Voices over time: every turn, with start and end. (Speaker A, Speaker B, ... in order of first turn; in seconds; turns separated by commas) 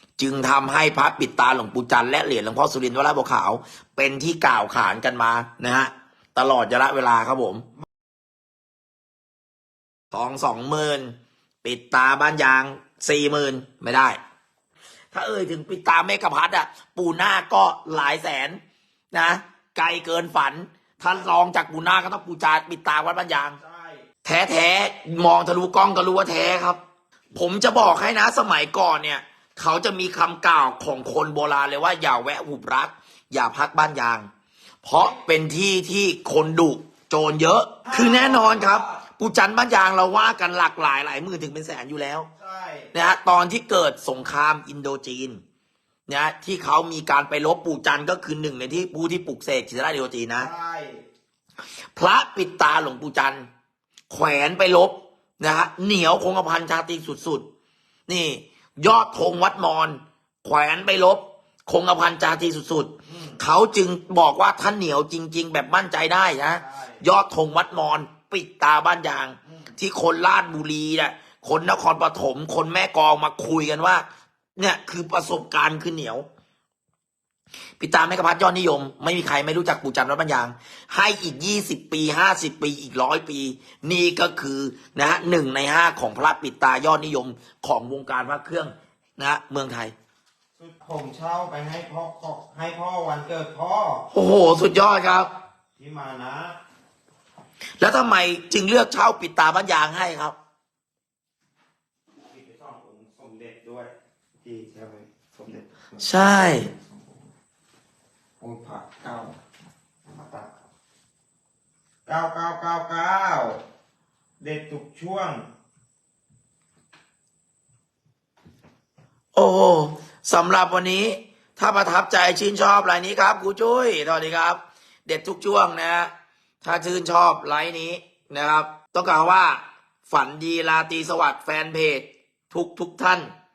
Speaker A: 0.2-7.7, Speaker A: 10.1-14.2, Speaker A: 15.1-18.6, Speaker A: 19.1-23.6, Speaker B: 23.6-24.1, Speaker A: 24.2-26.8, Speaker A: 27.3-34.3, Speaker A: 34.8-42.3, Speaker B: 37.9-38.9, Speaker B: 42.4-42.9, Speaker A: 42.9-45.4, Speaker A: 46.1-50.5, Speaker B: 50.4-51.0, Speaker A: 52.0-53.5, Speaker A: 54.1-57.5, Speaker A: 58.1-74.1, Speaker B: 63.1-63.4, Speaker B: 66.6-67.0, Speaker B: 69.5-69.7, Speaker A: 74.6-76.2, Speaker A: 77.8-89.9, Speaker B: 90.6-94.1, Speaker A: 94.1-95.3, Speaker B: 95.8-96.6, Speaker A: 97.8-100.4, Speaker B: 102.3-107.2, Speaker A: 106.0-106.7, Speaker B: 108.4-109.3, Speaker B: 110.1-110.5, Speaker B: 112.1-113.6, Speaker B: 114.4-115.5, Speaker A: 119.3-126.1, Speaker A: 126.6-133.3